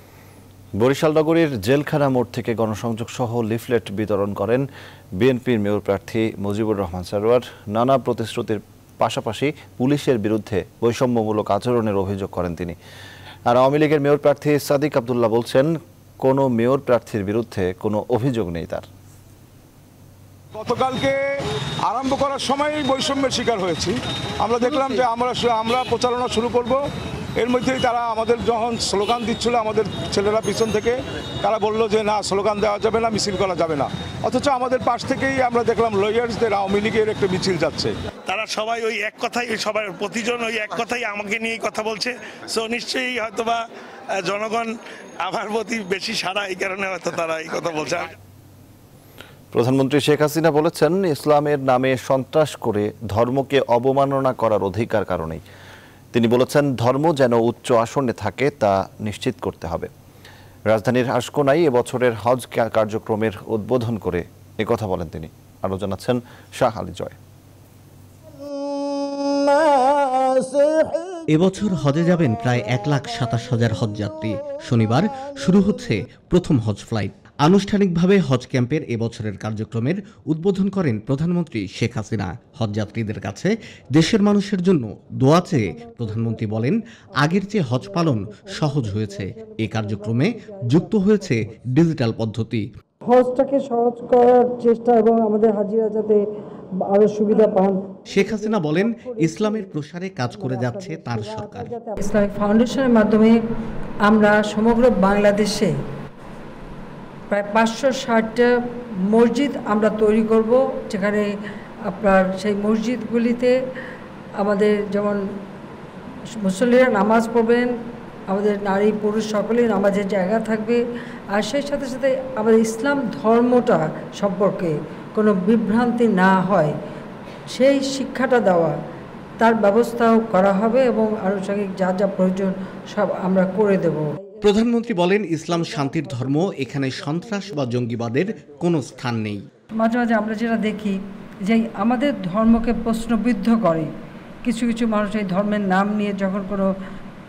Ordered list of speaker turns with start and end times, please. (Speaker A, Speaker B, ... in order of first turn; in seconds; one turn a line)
Speaker A: 0.8-12.8
Speaker A: 13.5-18.9
Speaker B: 20.5-21.2
Speaker B: 21.9-26.8
Speaker B: 27.4-37.9
Speaker C: 38.3-43.5
Speaker C: 44.3-44.7
Speaker C: 45.3-47.9
Speaker A: 49.5-55.4
Speaker A: 56.1-59.9
Speaker A: 60.7-67.2
Speaker D: 71.3-92.7
Speaker E: 93.1-96.2
Speaker E: 96.8-97.8
Speaker D: 98.1-101.8
Speaker E: 100.9-103.4
Speaker E: 104.0-105.8
Speaker E: 107.3-111.3
Speaker E: 111.9-113.5
Speaker E: 114.4-115.3
Speaker E: 116.4-117.7
Speaker E: 118.3-120.8
Speaker E: 121.3-126.8
Speaker E: 127.5-128.8
Speaker E: 129.4-134.2
Speaker D: 134.4-139.5
Speaker E: 139.8-143.9
Speaker E: 144.4-146.7